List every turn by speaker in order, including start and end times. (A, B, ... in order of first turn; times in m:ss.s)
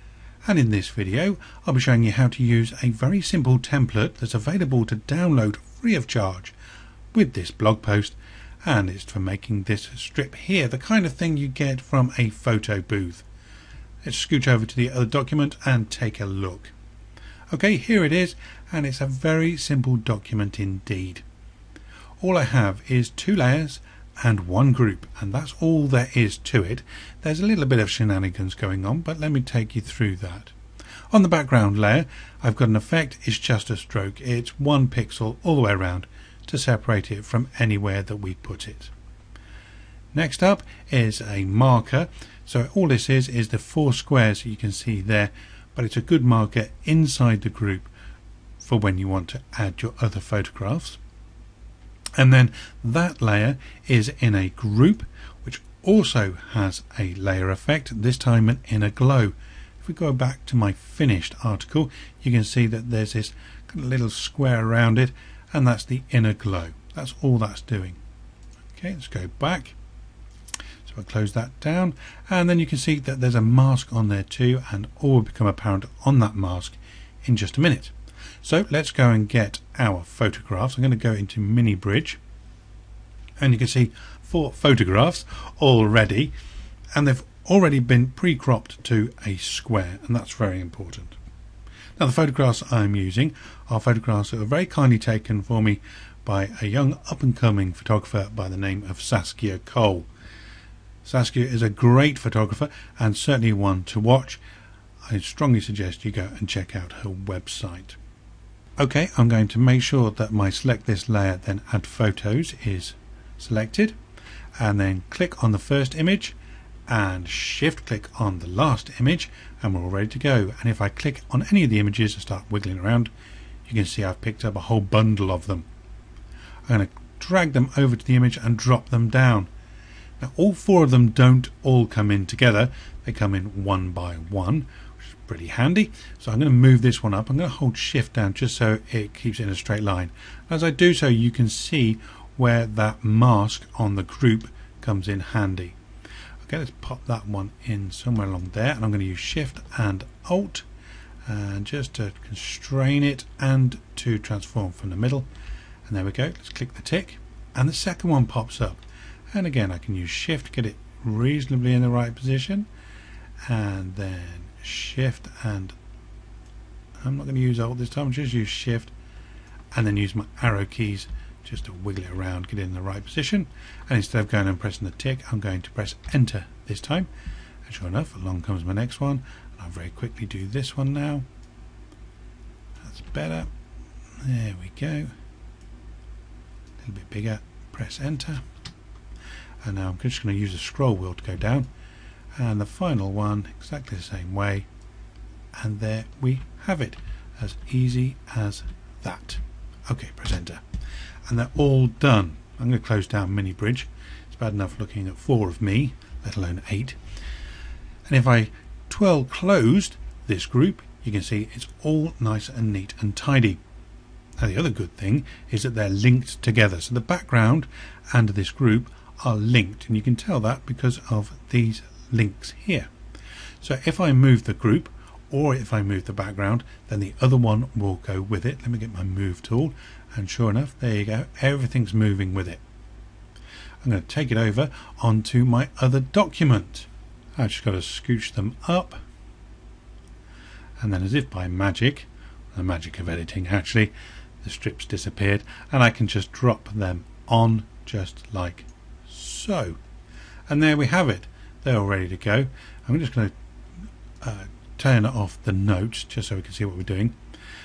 0:00.4-0:06.5 A
0:07.1-0:13.2 A
0:14.0-0:16.7 A
0:17.5-0:21.2 A
0:22.2-0:30.5 A
0:31.1-0:38.9 A
0:40.1-0:47.9 A
0:48.6-0:51.0 A
0:52.2-1:08.0 A
1:08.7-1:09.7 A
1:10.8-1:22.2 A
1:23.4-1:26.3 A
1:26.9-1:31.2 A
1:32.0-1:40.1 A
1:41.0-1:44.4 A
1:45.1-1:48.0 A
1:48.8-1:54.0 A
1:54.6-1:56.4 A
1:56.9-2:03.1 A
2:03.6-2:05.7 A
2:06.7-2:09.5 A
2:10.2-2:25.8 A
2:26.4-2:30.6 A
2:31.2-2:35.3 A
2:35.8-2:42.7 A
2:43.5-2:45.8 A
2:47.0-2:48.9 A
2:49.7-2:57.1 A
2:57.6-3:01.2 A
3:02.8-3:03.5 A
3:04.2-3:05.1 A
3:06.8-3:08.4 A
3:09.6-3:11.7 A
3:12.4-3:14.7 A
3:15.5-3:20.6 A
3:21.3-3:27.0 A
3:28.1-3:33.6 A
3:34.4-3:42.9 A
3:43.6-3:52.6 A
3:53.8-3:59.0 A
4:00.8-4:09.8 A
4:10.5-4:13.3 A
4:14.2-4:17.2 A